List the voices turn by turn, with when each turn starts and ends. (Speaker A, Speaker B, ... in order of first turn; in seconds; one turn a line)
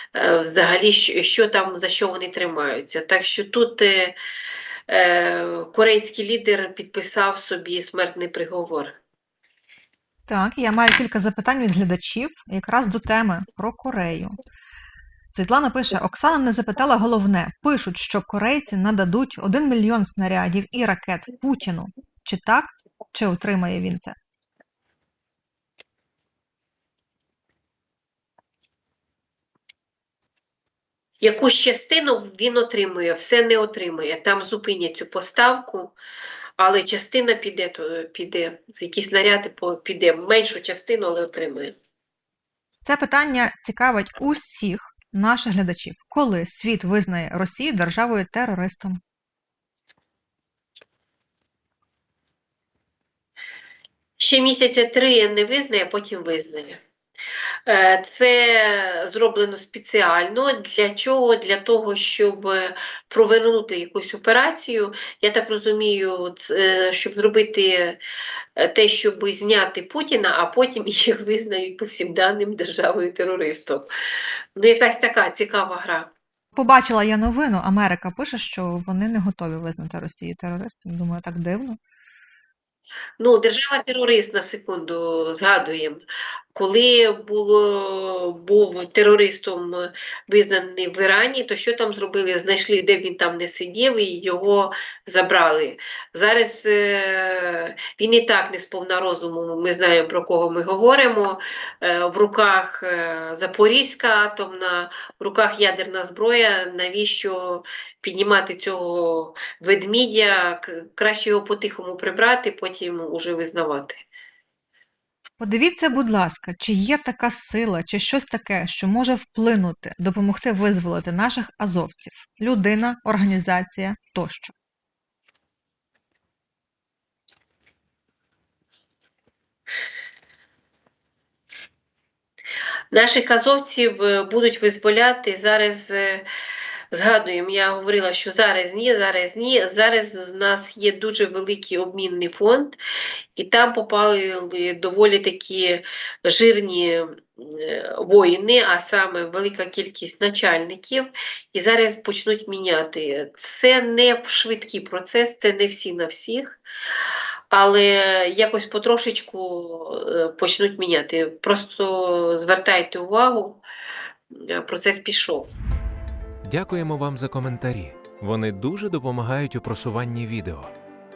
Speaker A: 0.1-4.2
Speaker A: 4.9-9.0
Speaker B: 10.3-14.4
Speaker B: 15.3-24.2
Speaker A: 31.2-35.9
Speaker A: 36.6-41.7
Speaker B: 42.8-49.0
Speaker A: 54.2-56.8
Speaker A: 57.7-68.0
Speaker A: 68.6-73.9
Speaker A: 74.6-76.1
Speaker B: 76.5-81.8
Speaker A: 83.2-86.0
Speaker A: 86.5-114.0
Speaker B: 115.4-124.5
Speaker A: 132.9-136.2
Speaker A: 136.9-142.8
Speaker A: 143.4-156.6
Speaker A: 157.5-163.6
Speaker A: 164.3-165.5
Speaker C: 166.4-170.7